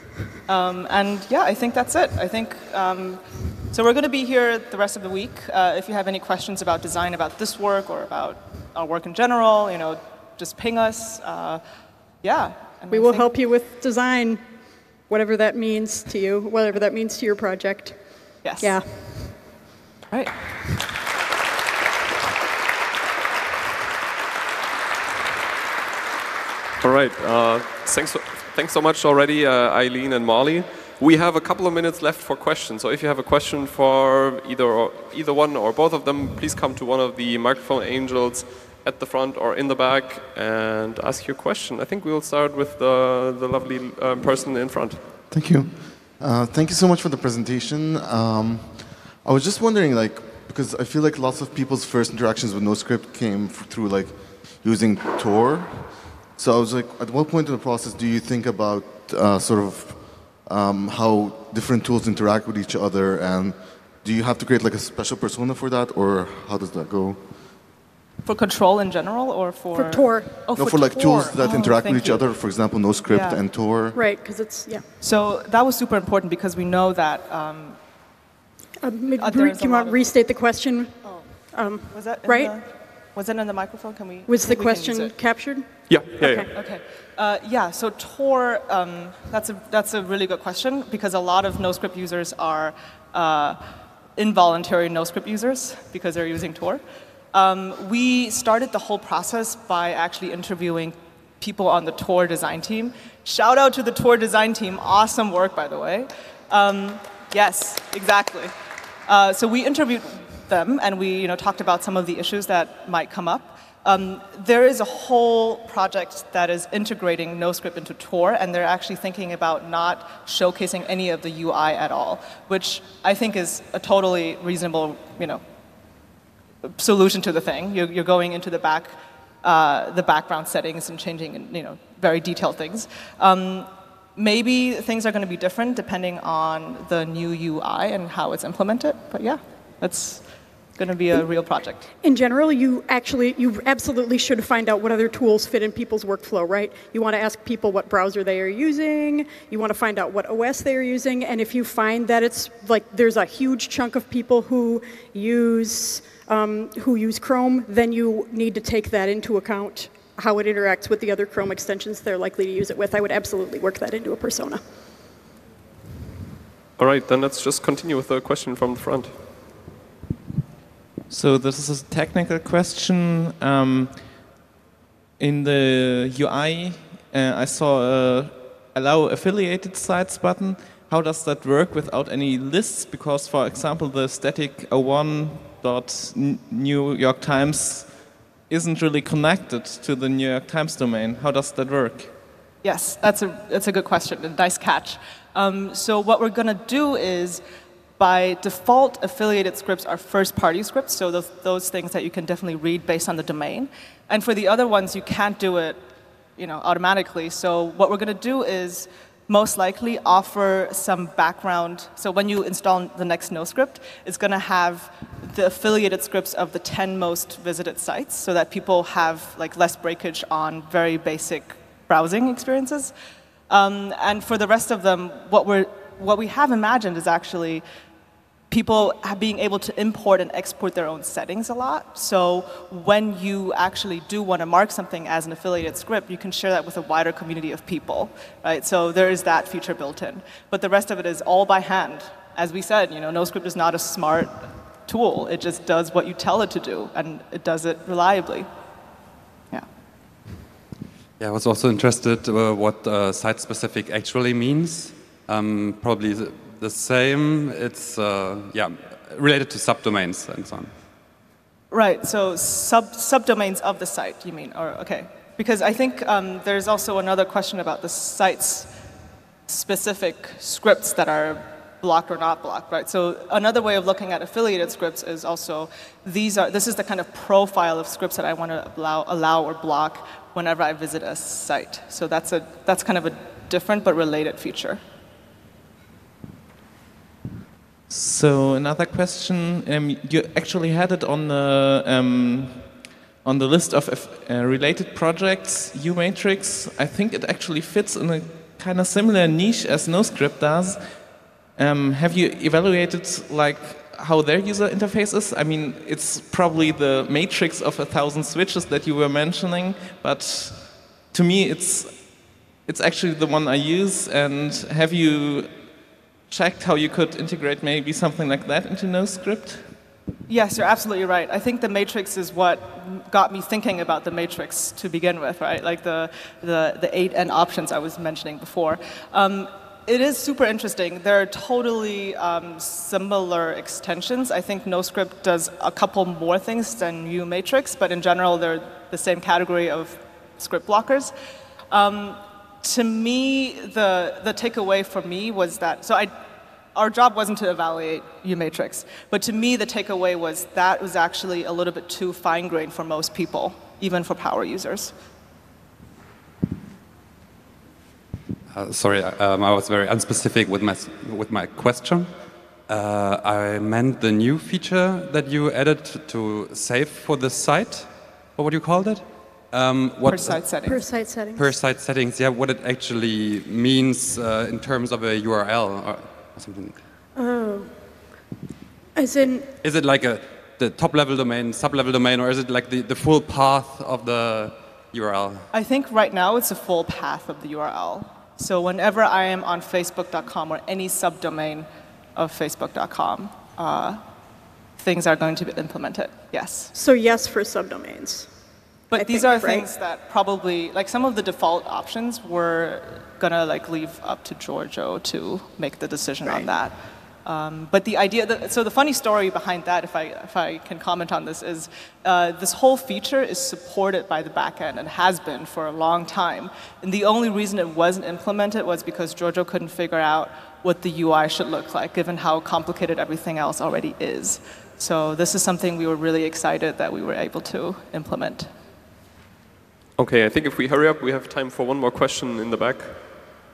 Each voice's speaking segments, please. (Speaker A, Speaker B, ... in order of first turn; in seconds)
Speaker A: 0.5-11.6, 12.2-13.3, 18.4-18.8, 20.1-20.6, 68.2-72.3, 73.1-73.4, 75.0-77.8, 79.2-80.1, 81.9-85.1, 86.5-93.6, 94.2-96.8, 97.3-108.5, 109.1-125.4, 126.6-140.2, 140.8-141.9, 192.6-197.4, 198.0-205.8, 206.4-222.9, 223.5-227.6, 228.5-248.5, 261.7-268.7, 269.5-284.8, 320.3-341.1, 341.7-346.1, 346.7-354.9, 370.0-370.8, 385.5-394.0, 394.8-396.7, 398.9-428.5
Speaker B: 12.9-14.4, 15.1-18.0, 18.6-19.4, 69.7-70.3, 73.9-74.8, 78.8-82.5, 84.3-86.5, 142.0-164.6, 370.6-371.5, 377.1-377.8, 378.9-379.5, 396.7-398.3, 398.9-399.7, 406.2-406.5
Speaker C: 26.8-45.0, 85.9-86.5, 166.8-169.1, 430.0-433.0
Speaker D: 45.3-67.4, 70.5-74.0
Speaker E: 171.1-174.2, 175.2-192.1, 287.9-315.6, 316.3-319.7
Speaker F: 251.2-260.7, 358.5-362.1, 362.7-370.4, 371.4-376.8, 379.6-385.5